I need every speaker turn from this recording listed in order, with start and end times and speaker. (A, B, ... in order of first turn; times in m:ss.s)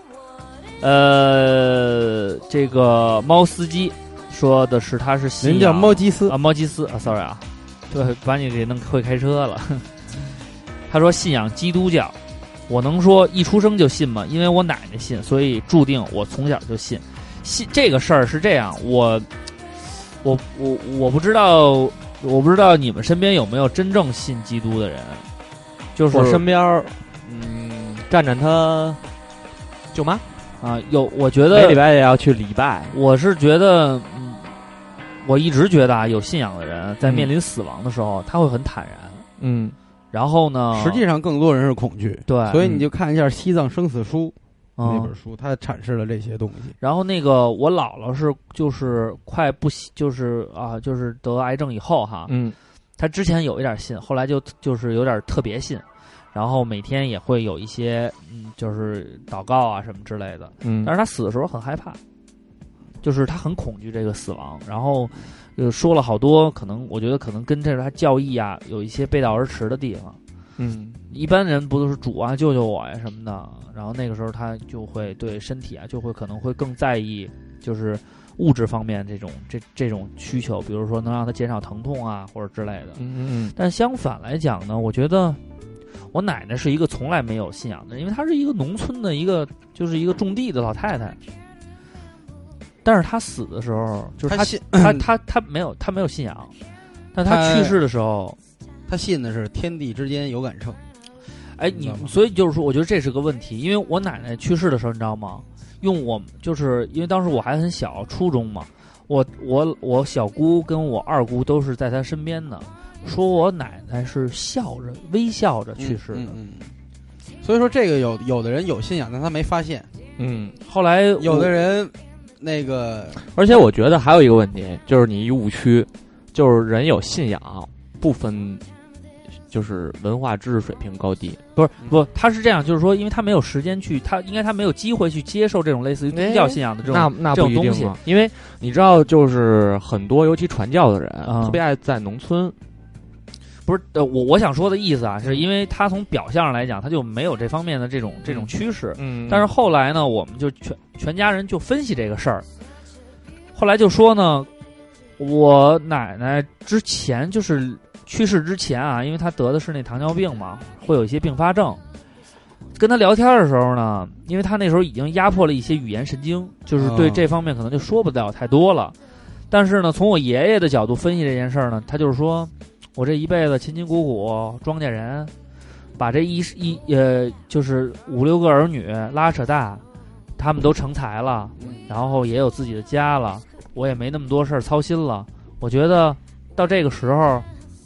0:00.8-0:09.9 A
0:05.4-0:06.4 B
0:10.9-0:12.2 A
0:12.7-0:19.3 A
0:20.2-0:25.3 A
0:26.0-0:26.4 A
0:26.1-0:29.0 C
0:29.9-0:30.2 C
0:30.6-0:31.8 A
0:31.5-0:33.0 C
0:32.9-0:34.5 A
0:35.2-0:39.3 A
0:37.0-0:37.3 C
0:39.4-0:39.8 C
0:40.1-0:41.0 A
0:40.7-0:46.8 B
0:42.3-0:42.6 A
0:42.6-0:42.9 C
0:44.8-0:45.1 A
0:46.8-0:52.4 A
0:52.3-0:52.6 C
0:53.0-1:02.0 A
1:00.6-1:00.9 C
1:03.0-1:10.2 A
1:10.6-1:11.0 C
1:11.1-1:23.0 A
1:23.0-1:23.6 C
1:23.6-1:25.4 A
1:26.1-1:31.2 A
1:32.8-1:36.5 A
1:34.3-1:35.0 B
1:37.1-1:38.4 A
1:37.2-1:37.8 B
1:38.9-1:40.8 B
1:41.6-1:56.3 A
1:41.7-1:42.1 B
1:55.8-1:56.7 B
1:57.4-1:59.9 B
2:00.2-2:00.6 C
2:00.7-2:01.5 A
2:01.2-2:03.2 B
2:03.3-2:08.6 C
2:09.5-2:11.4 C
2:11.6-2:18.0 A
2:16.1-2:22.6 C
2:21.2-2:21.6 A
2:23.7-2:32.5 A
2:28.2-2:29.5 C
2:33.6-2:34.5 A
2:35.2-2:41.8 A
2:42.8-2:49.0 A
2:46.8-2:47.2 B
2:49.5-2:55.3 A
2:56.0-2:59.8 A
3:00.4-3:07.5 A
3:01.6-3:01.8 B